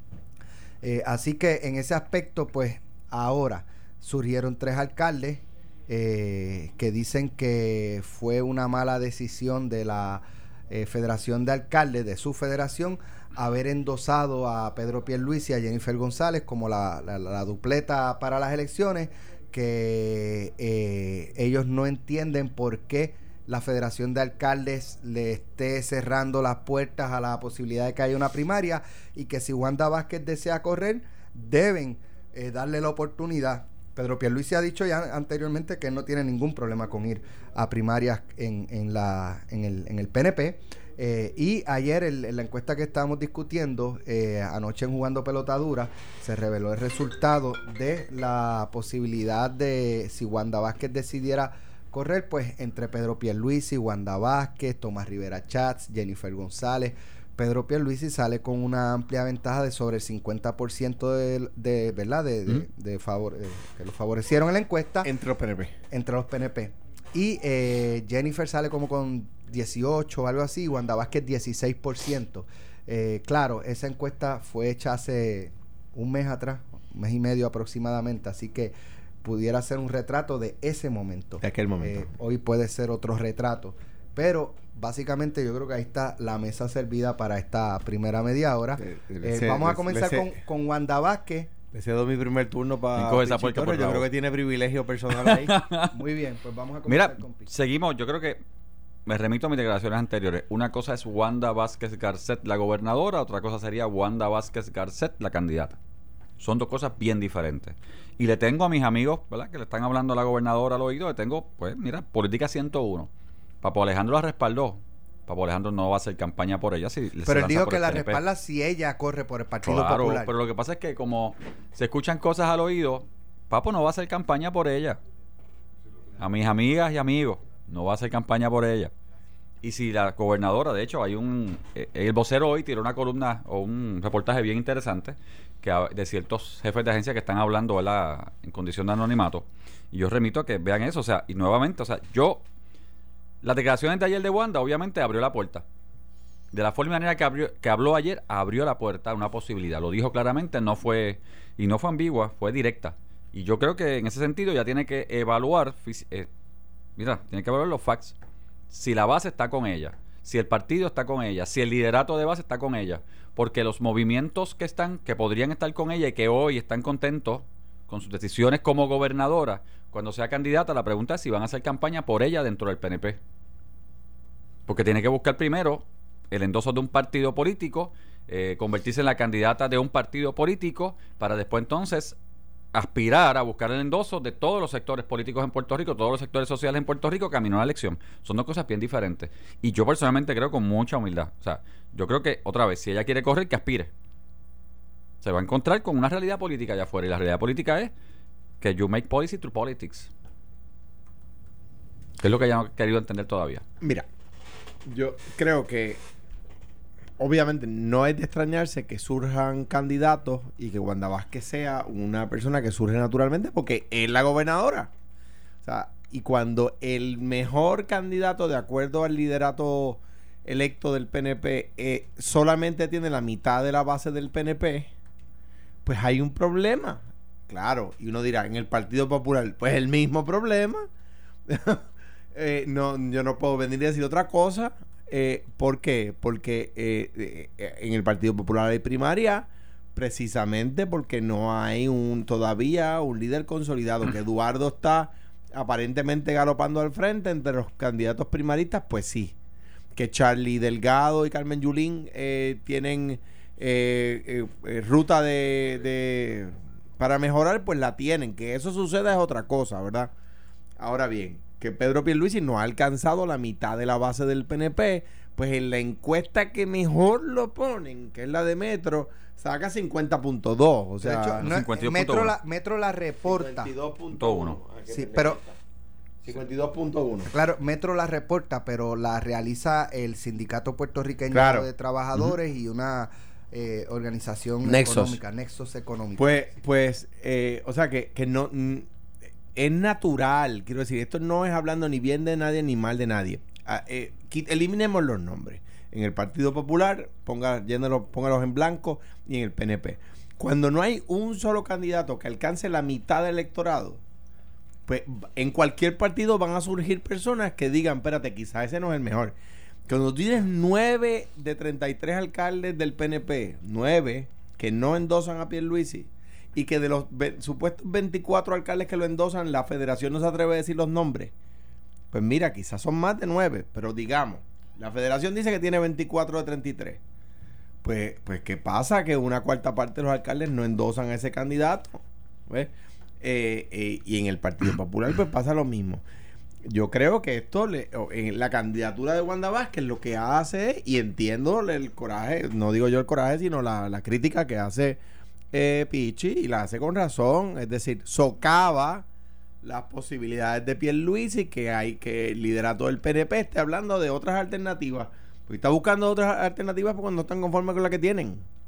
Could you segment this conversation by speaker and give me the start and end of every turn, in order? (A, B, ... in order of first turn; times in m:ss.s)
0:00.8-1:05.1 A
1:05.0-1:05.8 B
1:05.9-1:31.5 A
1:21.4-1:22.1 B
1:28.8-1:30.3 B
1:31.7-1:35.6 B
1:33.0-1:34.1 C
1:35.2-1:35.9 C
1:35.9-1:37.5 A
1:36.9-1:38.4 C
1:39.1-1:45.8 C
1:46.4-1:53.1 C
1:53.6-1:58.2 C
1:57.3-2:00.3 A
1:59.6-2:05.0 C
2:06.2-2:08.9 C
2:09.6-2:22.4 C
2:23.4-2:25.6 C
2:26.5-2:36.3 C
2:37.0-2:38.2 C
2:38.7-2:53.2 C
2:54.7-3:02.2 C
3:02.7-3:13.9 C
3:15.2-3:17.9 C
3:18.6-3:20.1 C
3:22.2-3:23.6 C
3:23.8-3:24.1 B
3:24.9-3:26.0 B
3:27.2-3:34.9 B
3:35.6-3:44.9 B
3:45.8-3:50.9 B
3:51.5-4:09.3 B
4:09.9-4:20.1 B
4:20.8-4:31.5 B
4:31.0-4:33.7 A
4:31.4-4:32.4 C
4:33.2-4:35.6 B
4:34.1-4:34.6 C
4:34.9-4:35.4 A
4:36.2-4:37.3 B
4:37.3-4:46.4 A
4:41.3-4:41.7 B
4:44.6-4:45.2 B
4:46.2-4:48.9 B
4:49.6-5:04.0 B
5:04.9-5:09.4 B
5:09.9-5:21.3 B
5:22.1-5:27.0 B
5:27.8-5:36.0 B
5:36.7-5:45.0 B
5:45.5-5:49.1 B
5:49.6-5:58.4 B